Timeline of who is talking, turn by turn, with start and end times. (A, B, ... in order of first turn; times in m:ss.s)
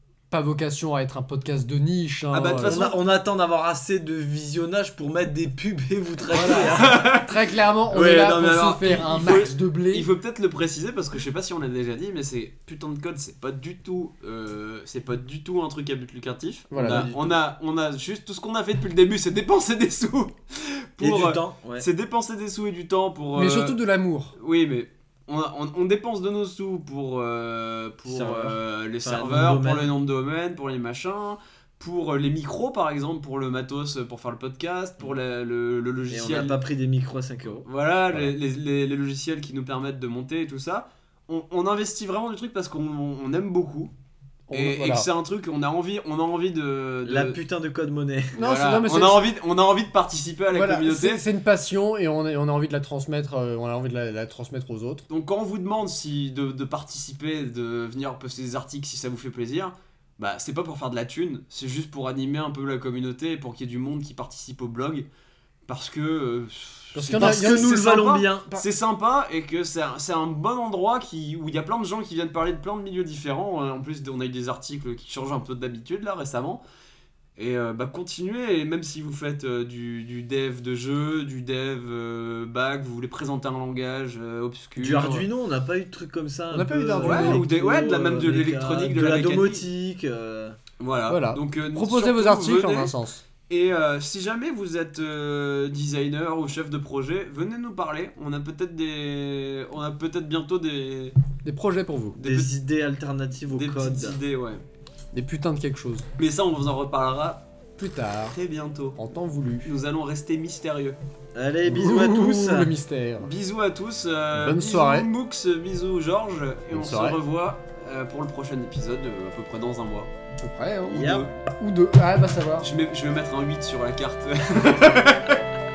0:00.3-0:03.0 A
0:02.3-0:07.0 B
0:02.4-0:02.9 C
0:06.3-0:10.1 A
0:06.6-0:07.4 C
0:07.9-0:23.8 C
0:16.7-0:17.1 A
0:16.8-0:17.3 B
0:21.0-0:21.8 B
0:23.4-0:24.3 A
0:24.4-0:36.5 C
0:28.0-0:29.9 B
0:36.1-0:37.6 B
0:37.6-0:43.9 C
0:44.5-0:45.1 A
0:44.5-0:47.4 C
0:47.0-0:48.4 B
0:48.4-0:49.3 A
0:48.4-0:51.2 C
0:50.5-0:55.0 A
0:55.1-1:05.0 C
1:05.7-1:16.6 C
1:06.9-1:07.7 A
1:07.2-1:08.6 B
1:17.4-1:25.3 C
1:24.8-1:30.6 B
1:26.5-1:27.4 A
1:27.0-1:29.6 C
1:30.8-1:32.9 C
1:31.1-1:33.2 A
1:33.4-1:41.1 C
1:41.4-1:42.2 A
1:42.2-1:42.5 C
1:42.2-1:44.2 B
1:43.5-1:44.6 C
1:45.1-1:46.1 A
1:46.2-1:47.4 C
1:47.8-1:48.4 A
1:48.3-1:49.0 C
1:49.0-1:49.7 A
1:49.6-1:51.0 C
1:51.3-1:52.7 B
1:51.6-1:53.3 A
1:53.2-2:00.1 C
1:54.3-1:55.1 A
1:56.7-1:57.2 A
2:00.4-2:02.7 A
2:00.9-2:01.3 B
2:00.9-2:01.3 C
2:02.6-2:05.4 C